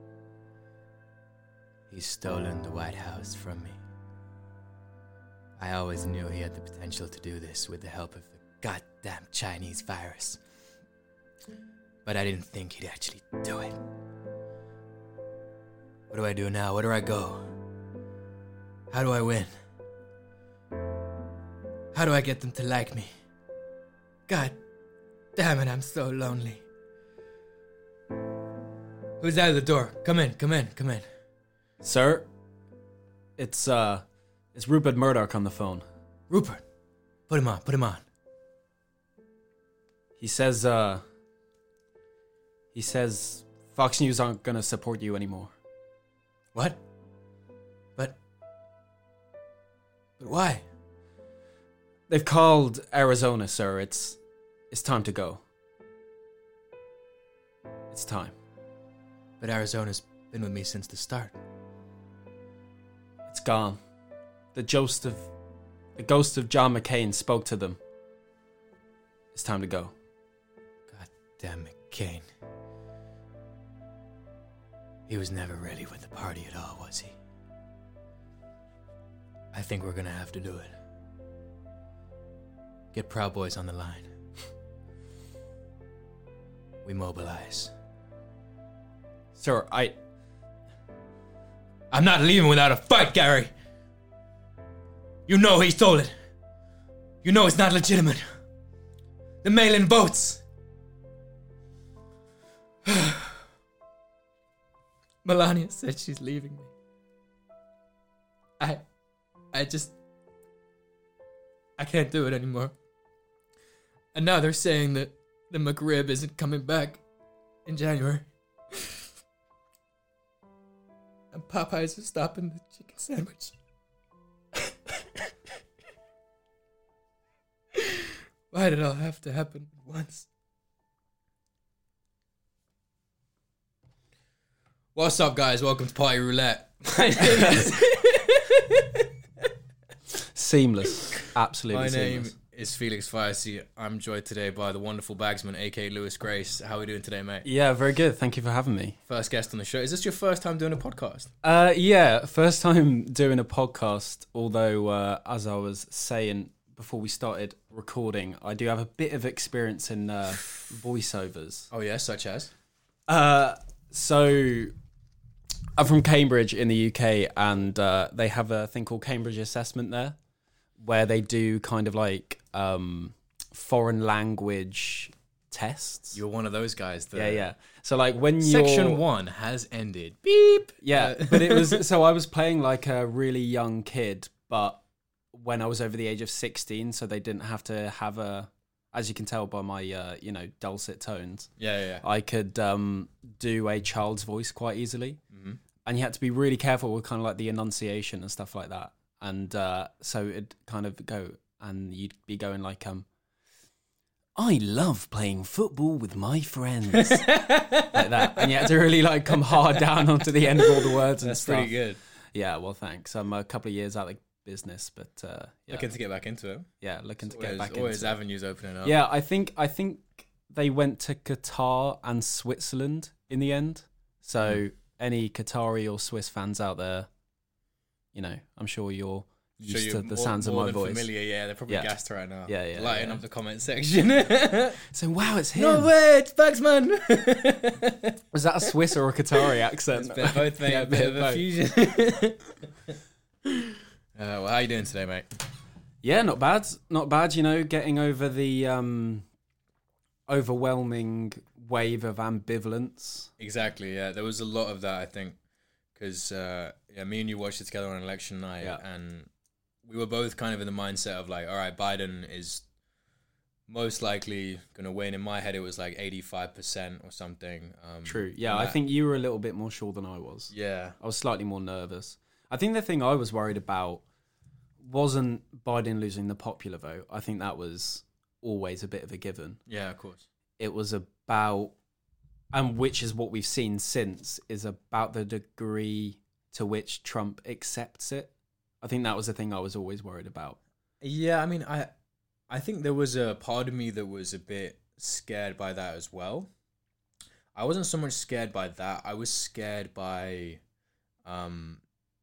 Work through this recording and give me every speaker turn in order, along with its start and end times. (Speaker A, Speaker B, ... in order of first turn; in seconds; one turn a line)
Speaker A: 1.9-3.8
Speaker A: 5.6-10.4
Speaker A: 12.0-13.8
Speaker A: 16.1-17.5
Speaker A: 18.9-19.5
Speaker A: 21.9-23.1
Speaker A: 24.3-24.6
Speaker A: 25.4-26.6
Speaker A: 29.2-31.1
Speaker B: 31.8-32.3
Speaker B: 33.4-35.8
Speaker A: 36.3-36.6
Speaker A: 37.3-38.0
Speaker B: 40.2-41.0
Speaker B: 42.7-45.5
Speaker A: 46.5-46.8
Speaker A: 50.2-50.6
Speaker B: 52.1-54.2
Speaker B: 54.7-55.4
Speaker B: 57.9-58.4
Speaker A: 59.4-61.4
Speaker B: 63.3-63.8
Speaker B: 64.5-65.3
Speaker B: 66.0-67.8
Speaker B: 69.3-69.9
Speaker A: 70.9-72.2
Speaker A: 75.1-77.2
Speaker A: 79.5-80.7
Speaker A: 82.9-84.1
Speaker A: 86.8-87.7
Speaker B: 89.3-90.0
Speaker A: 91.9-93.5
Speaker A: 95.2-96.2
Speaker A: 97.2-98.2
Speaker A: 99.4-100.4
Speaker A: 102.8-103.4
Speaker A: 105.2-106.7
Speaker A: 108.6-108.8
Speaker A: 109.5-109.9
Speaker A: 111.8-112.7
Speaker A: 114.1-117.0
Speaker A: 117.7-119.0
Speaker A: 121.3-123.5
Speaker A: 124.5-125.3
Speaker A: 127.7-130.3
Speaker A: 134.9-139.5
Speaker B: 140.3-142.3
Speaker A: 141.7-147.4
Speaker B: 147.4-149.0
Speaker A: 149.1-151.3
Speaker B: 151.4-161.7
Speaker A: 161.7-162.5
Speaker B: 163.1-164.7
Speaker B: 165.8-170.2
Speaker B: 170.8-176.2
Speaker A: 176.1-177.4
Speaker B: 177.1-179.0
Speaker A: 178.4-181.8
Speaker B: 180.8-191.5
Speaker A: 191.6-192.0
Speaker B: 192.0-195.2
Speaker A: 195.3-195.6
Speaker B: 195.8-203.1
Speaker B: 204.3-207.3
Speaker A: 206.9-208.7
Speaker B: 207.9-211.7
Speaker A: 209.3-209.8
Speaker A: 210.4-212.0
Speaker B: 212.3-215.9
Speaker A: 215.7-216.7
Speaker B: 216.8-218.2
Speaker A: 217.2-219.0
Speaker B: 218.8-227.1
Speaker B: 228.1-231.1
Speaker A: 229.6-234.8
Speaker B: 232.5-233.2
Speaker B: 234.9-235.9
Speaker A: 235.5-238.2
Speaker B: 238.3-241.4
Speaker A: 239.9-242.9
Speaker A: 244.1-245.3
Speaker B: 246.0-249.2
Speaker B: 250.3-253.3
Speaker A: 253.4-255.4
Speaker A: 255.9-259.3
Speaker A: 259.8-262.6
Speaker A: 263.7-268.8
Speaker B: 268.1-274.0
Speaker A: 270.5-271.0
Speaker B: 274.8-279.6
Speaker A: 279.7-280.3
Speaker B: 280.6-281.8
Speaker B: 282.5-290.6
Speaker A: 291.0-291.9
Speaker A: 292.5-296.5
Speaker A: 297.5-300.6
Speaker A: 301.2-301.8